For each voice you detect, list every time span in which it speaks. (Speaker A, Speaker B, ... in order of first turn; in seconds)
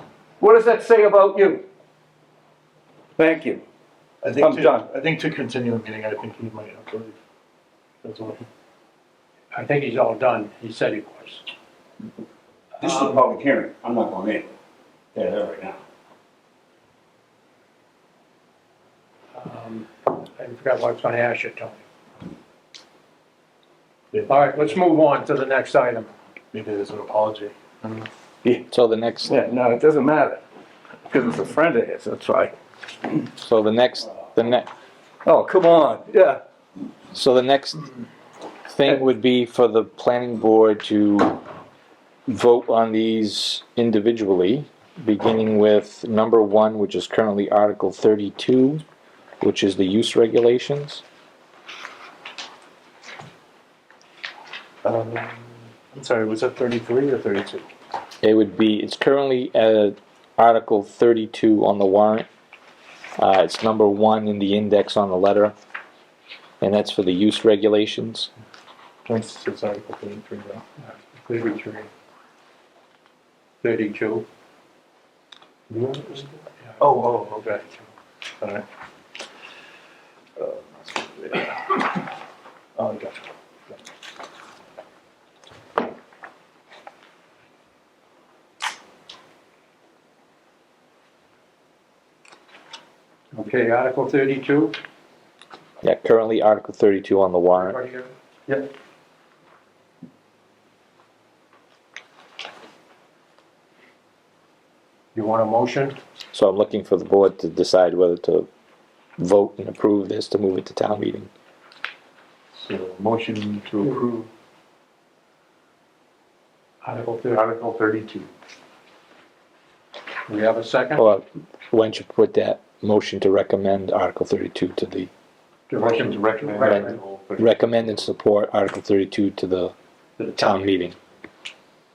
Speaker A: 0.4-1.6, 3.2-3.6, 4.3-4.9, 29.3-30.4, 31.1-32.5, 35.2-36.4
Speaker B: 4.2-7.2, 8.0-8.4, 24.1-24.8, 26.5-28.1, 54.8-57.6, 69.0-70.6, 76.8-77.6, 80.4-81.8, 82.8-83.2, 112.6-114.3, 117.3-118.3, 125.7-128.1
Speaker C: 9.5-11.4, 12.8-13.2, 19.4-21.8, 24.3-26.1, 70.8-71.9, 73.6-74.2, 75.7-77.8, 93.3-94.7, 97.5-98.7, 105.1-106.0, 116.8-117.3, 120.3-121.0, 125.7-127.0, 130.2-130.5
Speaker D: 12.8-14.5, 15.1-15.8
Speaker E: 28.7-29.3, 33.4-34.7, 37.1-37.9, 38.7-41.4, 42.3-48.8, 49.4-51.0, 58.2-62.3, 63.2-65.5, 66.6-68.3, 95.8-97.8, 106.3-108.5, 109.2-111.3, 121.0-125.1, 126.6-129.7, 130.3-131.0